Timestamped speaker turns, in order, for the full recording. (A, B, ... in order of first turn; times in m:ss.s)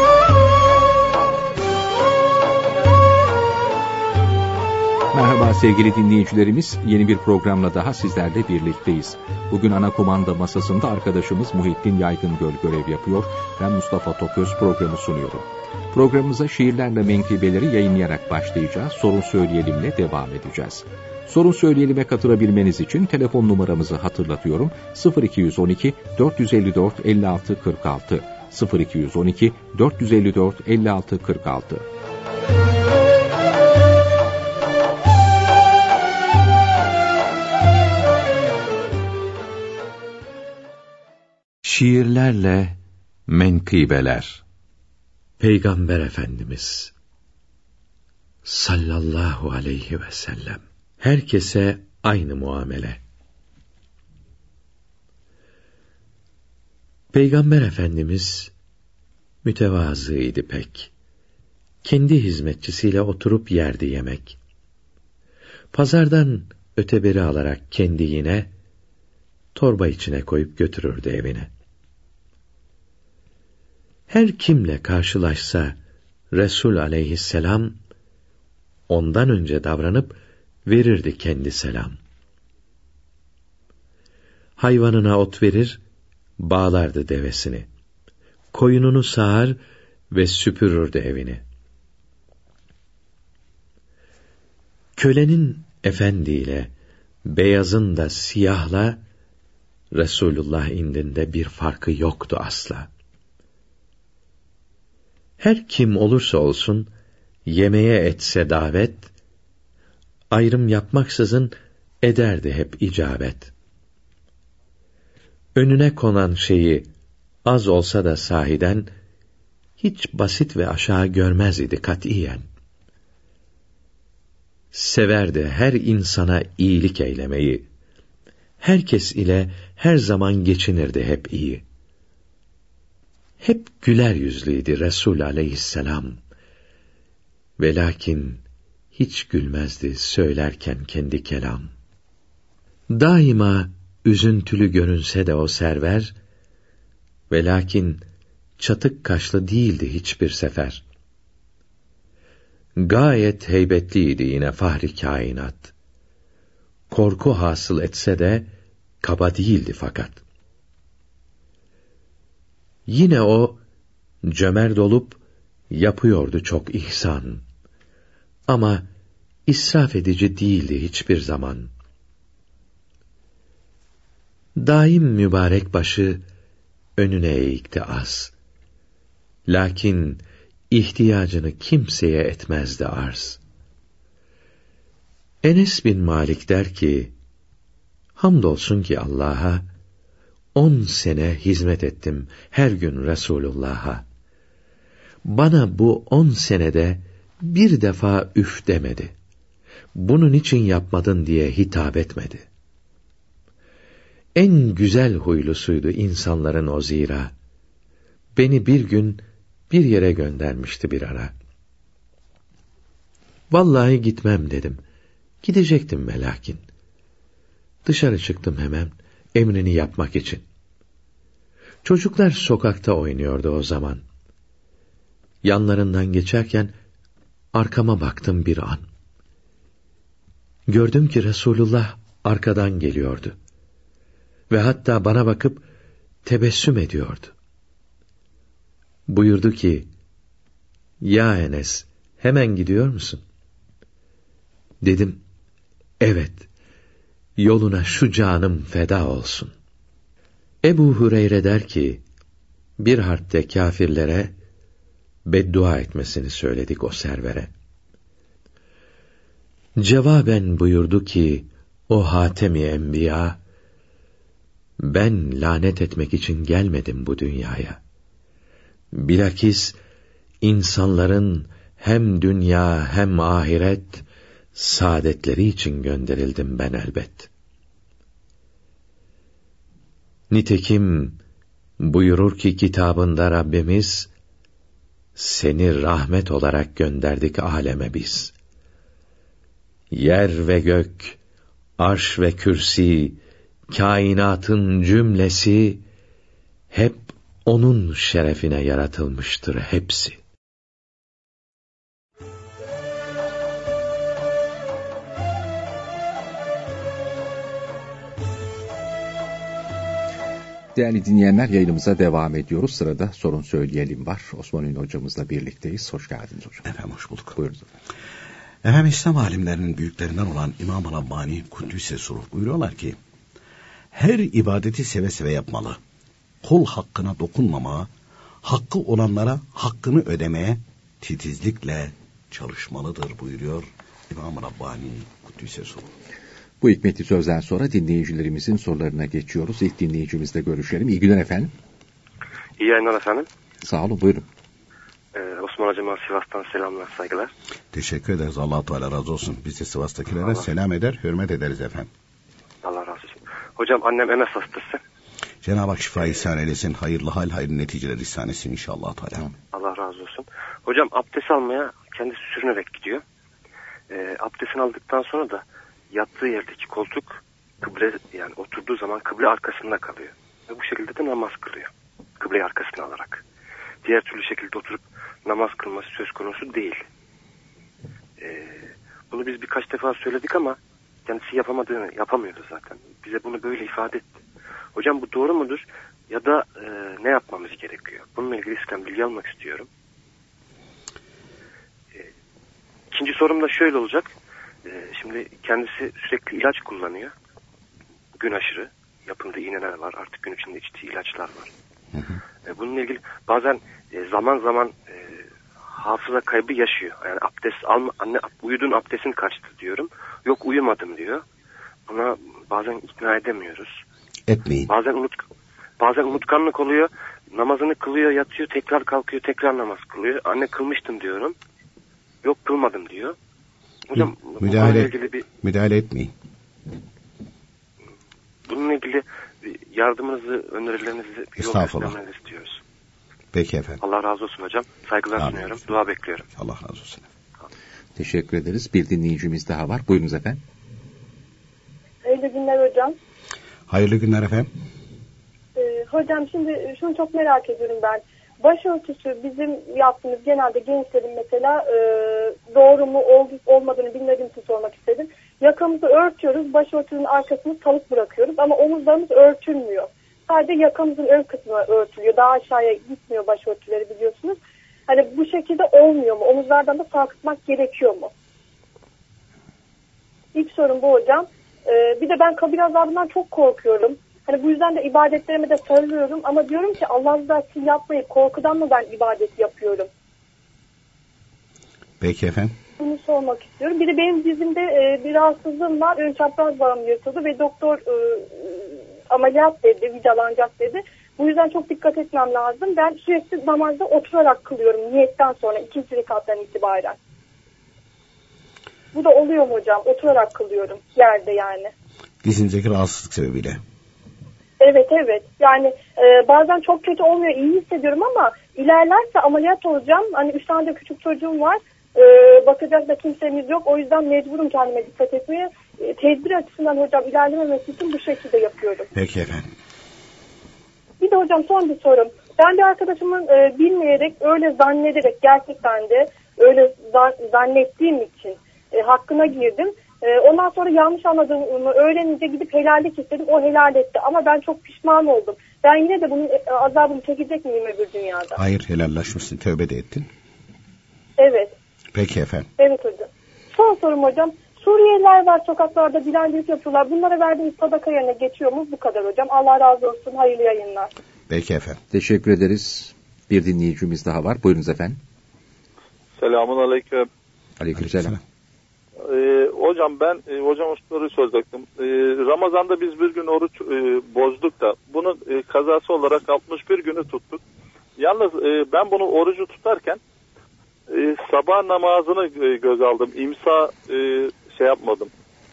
0:05.1-0:31.9 A
0:41.6-0:44.4 B
0:45.4-0:46.9 B
0:48.4-0:53.0 B
0:57.1-0:58.5 B
0:59.4-1:00.9 B
1:01.8-1:04.4 B
1:05.7-1:08.5 B
1:09.5-1:11.5 B
1:14.1-1:15.8 B
1:16.3-1:17.8 B
1:18.9-1:22.0 B
1:24.6-1:25.8 B
1:26.4-1:27.7 B
1:28.5-1:29.6 B
1:30.1-1:31.4 B
1:35.0-1:36.7 B
1:37.2-1:39.0 B
1:39.9-1:42.9 B
1:45.4-1:46.9 B
1:47.5-1:49.1 B
1:50.3-1:53.5 B
1:55.6-1:56.9 B
1:57.4-1:58.9 B
1:59.8-2:02.4 B
2:04.7-2:07.7 B
2:08.6-2:11.6 B
2:13.4-2:16.2 B
2:17.6-2:18.4 B
2:18.9-2:21.7 B
2:22.9-2:26.1 B
2:27.3-2:28.0 B
2:28.6-2:30.8 B
2:32.8-2:35.7 B
2:36.9-2:38.5 B
2:39.0-2:40.2 B
2:42.9-2:43.6 B
2:44.2-2:47.4 B
2:48.5-2:48.9 B
2:49.5-2:51.7 B
2:54.6-2:56.2 B
2:57.0-2:58.3 B
2:59.5-3:03.4 B
3:05.4-3:07.1 B
3:08.2-3:09.7 B
3:10.5-3:14.0 B
3:15.2-3:19.1 B
3:19.9-3:22.4 B
3:24.4-3:27.3 B
3:28.4-3:31.3 B
3:33.5-3:34.8 B
3:35.4-3:36.6 B
3:37.8-3:40.4 B
3:41.8-3:44.0 B
3:45.4-3:46.7 B
3:47.5-3:48.8 B
3:50.7-3:53.4 B
3:54.5-3:55.6 B
3:56.2-3:57.3 B
3:59.1-3:59.9 B
4:01.0-4:03.2 B
4:04.8-4:05.2 B
4:06.0-4:06.5 B
4:07.4-4:09.5 B
4:10.6-4:12.0 B
4:12.8-4:14.3 B
4:15.3-4:17.5 B
4:19.8-4:23.4 B
4:24.8-4:27.8 B
4:28.9-4:29.8 B
4:30.4-4:37.3 B
4:40.3-4:41.2 B
4:41.8-4:44.1 B
4:45.2-4:48.3 B
4:49.9-4:51.2 B
4:51.8-4:53.2 B
4:53.7-4:55.8 B
4:56.7-5:00.2 B
5:10.7-5:16.7 A
5:16.6-5:17.4 C
5:17.4-5:17.6 A
5:18.6-5:23.0 C
5:23.9-5:25.8 C
5:26.4-5:27.9 C
5:28.4-5:35.9 C
5:36.6-5:41.5 A
5:42.6-5:43.3 D
5:43.6-5:44.3 A
5:45.1-5:47.3 D
5:47.7-5:51.9 C
5:52.6-5:54.8 D
5:55.4-5:59.3 C
5:59.5-6:03.0 D
6:03.9-6:13.2 D
6:13.8-6:16.8 D
6:18.2-6:24.1 D
6:24.7-6:29.7 D
6:32.9-6:34.1 D
6:34.6-6:37.1 D
6:38.2-6:41.5 D
6:41.9-6:42.2 C
6:42.4-6:51.2 D
6:51.9-6:53.8 D
6:54.3-6:54.7 C
6:54.7-6:55.2 D
6:55.8-7:01.4 D
7:02.2-7:03.1 D
7:03.9-7:05.2 D
7:04.0-7:06.1 C
7:08.5-7:12.6 D
7:11.4-7:12.0 C
7:13.3-7:13.8 C
7:13.8-7:16.2 D
7:15.2-7:15.6 C
7:16.3-7:17.1 C
7:18.0-7:20.4 A
7:22.0-7:23.0 E
7:23.7-7:24.5 C
7:25.6-7:44.4 E
7:44.9-7:48.1 E
7:50.3-7:59.9 E
8:02.0-8:02.5 C
8:02.8-8:17.0 E
8:18.9-8:21.7 E
8:22.2-8:23.6 C
8:24.6-8:38.9 E
8:38.9-8:39.5 C
8:41.0-8:58.4 E
8:58.4-9:00.1 C
9:01.2-9:01.5 E
9:01.9-9:02.5 C
9:02.6-9:10.9 E
9:11.3-9:11.8 C
9:11.9-9:15.0 A
9:16.2-9:17.1 F
9:17.6-9:18.2 A
9:17.8-9:18.2 C
9:19.0-9:27.4 F
9:28.0-9:30.0 F
9:30.9-9:35.1 F